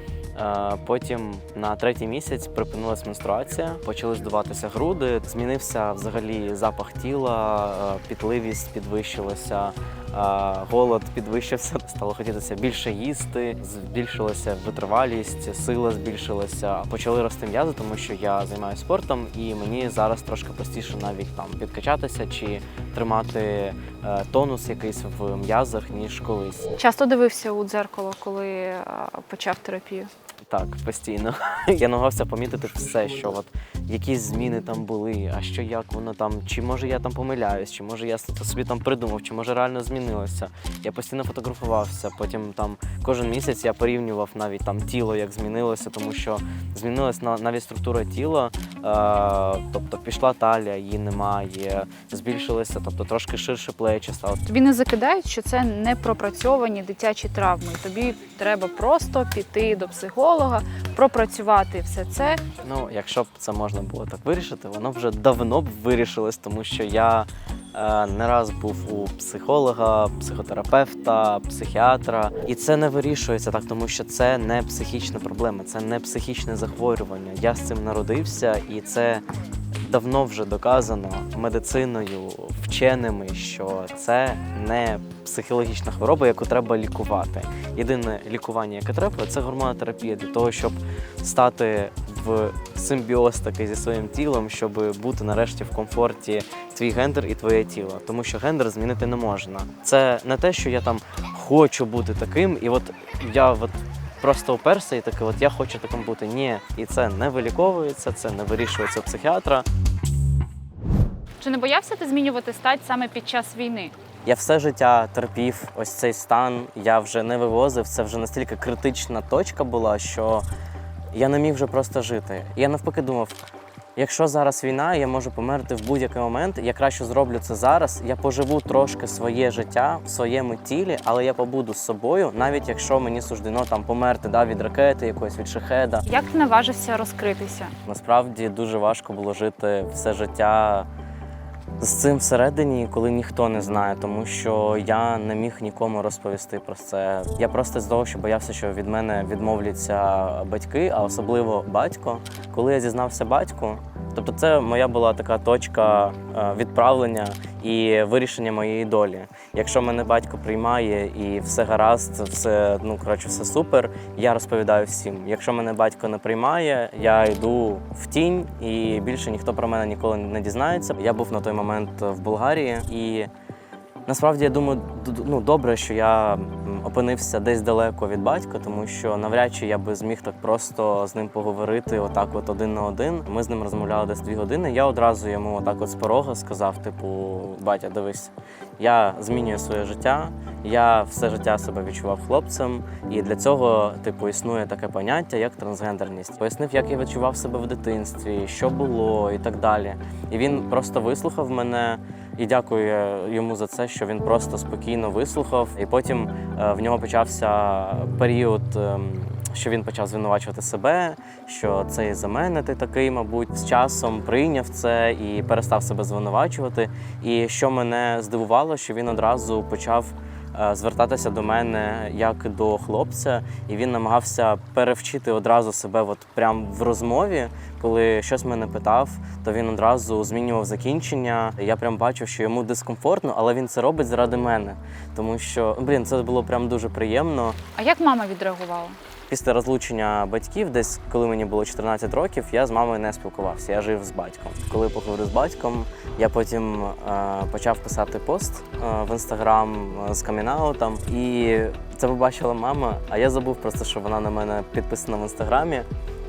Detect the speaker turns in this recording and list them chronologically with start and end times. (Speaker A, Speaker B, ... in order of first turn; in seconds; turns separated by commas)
Speaker A: 0.3-26.7, Speaker B: 26.7-30.1, Speaker A: 30.4-54.5, Speaker B: 54.5-62.4, Speaker A: 62.6-79.2, Speaker A: 79.8-109.7, Speaker B: 111.4-113.9, Speaker A: 114.2-120.4, Speaker A: 121.1-123.3, Speaker A: 124.0-136.0, Speaker B: 136.1-137.7, Speaker A: 137.8-140.9, Speaker A: 141.8-173.3, Speaker A: 174.1-237.6, Speaker B: 237.8-239.0, Speaker A: 239.3-255.9